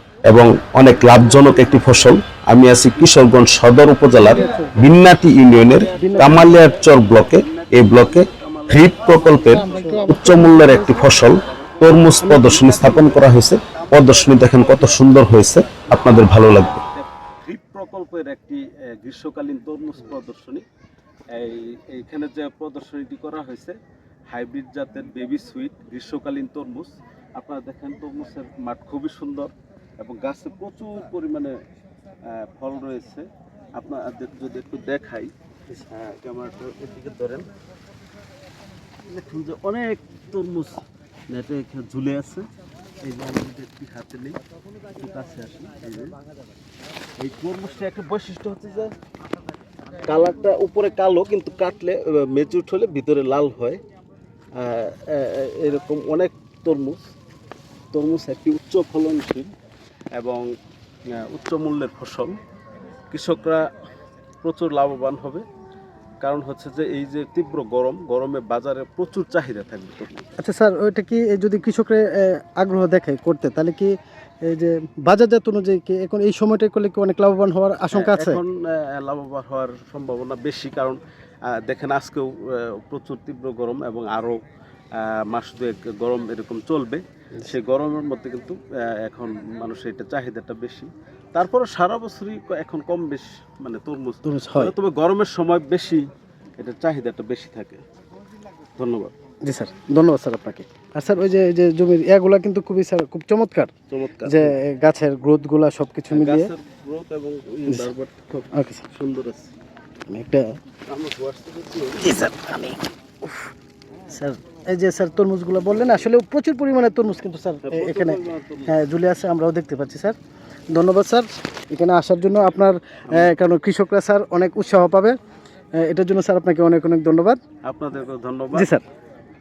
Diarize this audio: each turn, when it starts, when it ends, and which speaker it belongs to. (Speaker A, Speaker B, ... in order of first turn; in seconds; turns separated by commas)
Speaker A: 0.3-16.8, Speaker B: 0.8-2.1, Speaker B: 2.8-3.4, Speaker C: 4.1-4.7, Speaker B: 5.5-20.6, Speaker C: 6.0-6.8, Speaker C: 9.4-11.1, Speaker C: 12.2-13.0, Speaker B: 21.3-23.8, Speaker B: 24.3-31.5, Speaker B: 32.3-37.5, Speaker B: 39.1-42.5, Speaker B: 43.0-46.1, Speaker B: 47.2-48.9, Speaker B: 50.0-53.8, Speaker B: 54.5-57.0, Speaker B: 57.9-59.5, Speaker B: 60.2-60.5, Speaker B: 61.1-62.3, Speaker B: 63.1-63.7, Speaker B: 64.4-65.4, Speaker B: 66.2-70.3, Speaker C: 70.4-73.9, Speaker C: 74.4-78.4, Speaker B: 77.9-81.0, Speaker B: 81.5-84.4, Speaker B: 85.0-96.0, Speaker C: 94.2-94.7, Speaker B: 96.6-97.8, Speaker B: 98.8-99.1, Speaker C: 99.4-103.7, Speaker B: 103.9-104.6, Speaker C: 104.2-106.5, Speaker B: 106.1-109.5, Speaker C: 108.5-108.8, Speaker C: 110.1-110.6, Speaker B: 110.9-112.3, Speaker C: 112.0-113.5, Speaker C: 114.1-120.2, Speaker B: 117.6-118.7, Speaker C: 120.7-125.2, Speaker C: 125.8-127.4, Speaker B: 127.6-128.7, Speaker C: 128.5-128.8